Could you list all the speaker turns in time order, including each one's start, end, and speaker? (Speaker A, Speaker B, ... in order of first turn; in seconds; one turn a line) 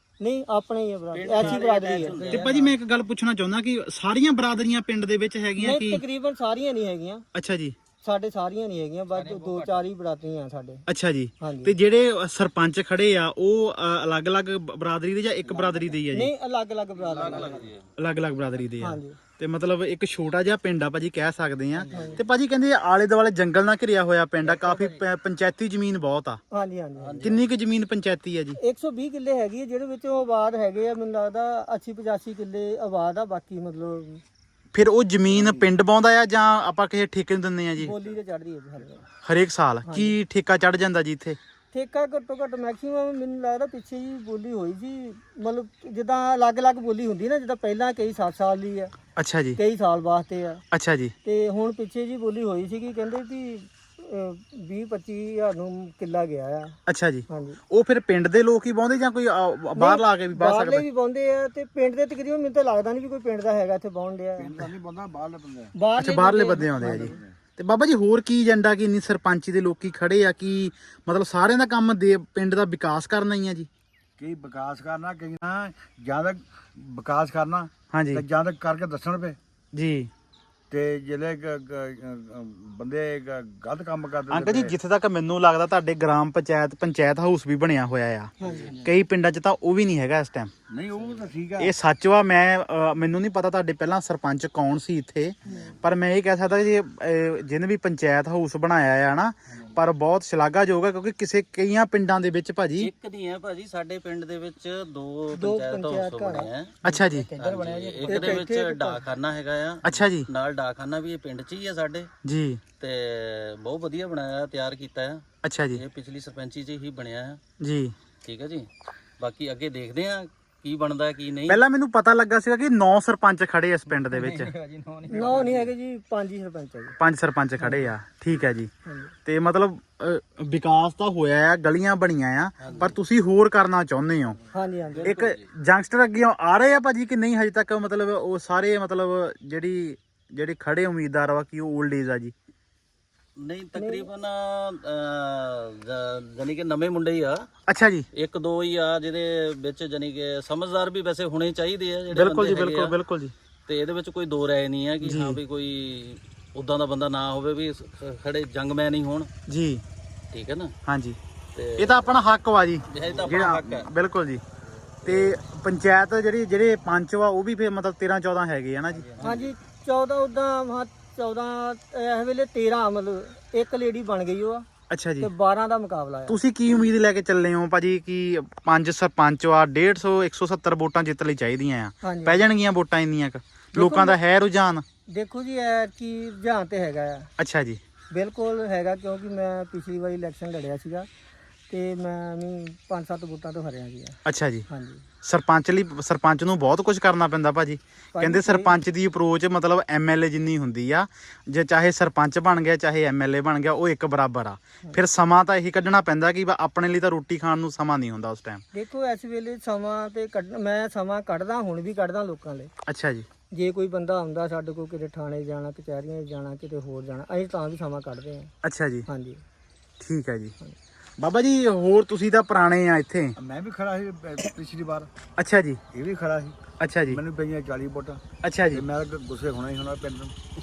Speaker A: 0.2-2.3
Speaker B: 1.1-2.8
Speaker C: 2.3-6.0
Speaker A: 5.6-7.2
Speaker C: 7.3-7.8
Speaker A: 8.0-10.8
Speaker B: 9.1-9.8
Speaker C: 10.9-16.3
Speaker A: 11.4-11.8
Speaker B: 15.6-15.8
Speaker A: 16.1-17.7
Speaker B: 17.0-17.9
Speaker C: 18.0-26.4
Speaker A: 18.8-19.2
Speaker B: 21.8-22.2
Speaker A: 21.9-22.2
Speaker B: 24.4-25.0
Speaker A: 26.5-27.3
Speaker B: 27.0-27.5
Speaker C: 27.2-28.6
Speaker A: 28.6-34.2
Speaker C: 34.7-37.9
Speaker D: 35.3-35.7
Speaker A: 37.8-39.0
Speaker C: 39.2-41.4
Speaker A: 39.9-40.2
Speaker A: 41.7-48.9
Speaker C: 49.2-49.6
Speaker A: 49.6-50.6
Speaker C: 50.7-51.1
Speaker A: 51.2-56.8
Speaker C: 56.9-60.9
Speaker A: 57.3-57.6
Speaker A: 59.8-64.7
Speaker D: 64.4-65.7
Speaker A: 65.8-67.2
Speaker C: 66.0-73.7
Speaker D: 66.9-67.4
Speaker D: 74.2-79.4
Speaker C: 77.9-78.2
Speaker C: 79.7-80.1
Speaker D: 80.7-84.7
Speaker C: 84.3-90.5
Speaker A: 88.4-88.8
Speaker B: 88.4-88.9
Speaker D: 90.7-91.7
Speaker C: 91.6-102.9
Speaker B: 102.8-106.8
Speaker A: 105.3-107.5
Speaker C: 106.8-107.3
Speaker D: 107.2-108.4
Speaker B: 107.4-112.1
Speaker A: 108.0-109.1
Speaker C: 109.8-110.3
Speaker C: 112.2-112.6
Speaker B: 112.8-117.4
Speaker C: 115.4-115.8
Speaker C: 117.6-118.0
Speaker B: 118.2-118.7
Speaker B: 119.2-121.6
Speaker C: 121.5-124.5
Speaker B: 123.9-125.7
Speaker A: 125.1-127.0
Speaker C: 127.0-128.7
Speaker A: 128.9-129.1
Speaker C: 129.3-134.4
Speaker B: 132.6-133.0
Speaker A: 134.5-135.2
Speaker B: 134.9-135.5
Speaker C: 135.0-142.3
Speaker B: 143.4-147.5
Speaker A: 143.8-144.1
Speaker C: 147.7-148.1
Speaker B: 148.2-153.0
Speaker C: 152.1-153.3
Speaker B: 153.7-159.3
Speaker C: 155.0-155.4
Speaker C: 159.5-159.8
Speaker B: 160.3-160.7
Speaker C: 160.9-161.2
Speaker B: 161.6-162.1
Speaker C: 161.8-164.4
Speaker B: 162.9-163.9
Speaker B: 165.1-165.4
Speaker C: 165.1-169.4
Speaker B: 169.1-169.4
Speaker A: 169.2-174.7
Speaker C: 174.9-175.3
Speaker A: 175.2-176.4
Speaker C: 176.3-184.8
Speaker A: 182.0-182.4
Speaker A: 183.8-184.2
Speaker A: 185.1-187.3
Speaker C: 187.4-187.8
Speaker A: 188.1-191.1
Speaker A: 191.7-195.1
Speaker C: 194.3-194.7
Speaker C: 195.2-208.6
Speaker A: 198.1-198.8
Speaker A: 208.7-212.7
Speaker C: 212.9-213.3
Speaker A: 213.5-218.5
Speaker C: 218.6-219.1
Speaker A: 219.1-219.4
Speaker C: 220.0-220.5
Speaker C: 221.2-223.4
Speaker D: 223.4-225.1
Speaker C: 225.4-225.8
Speaker D: 225.9-228.2
Speaker C: 226.8-227.2
Speaker C: 228.4-228.8
Speaker D: 228.7-230.3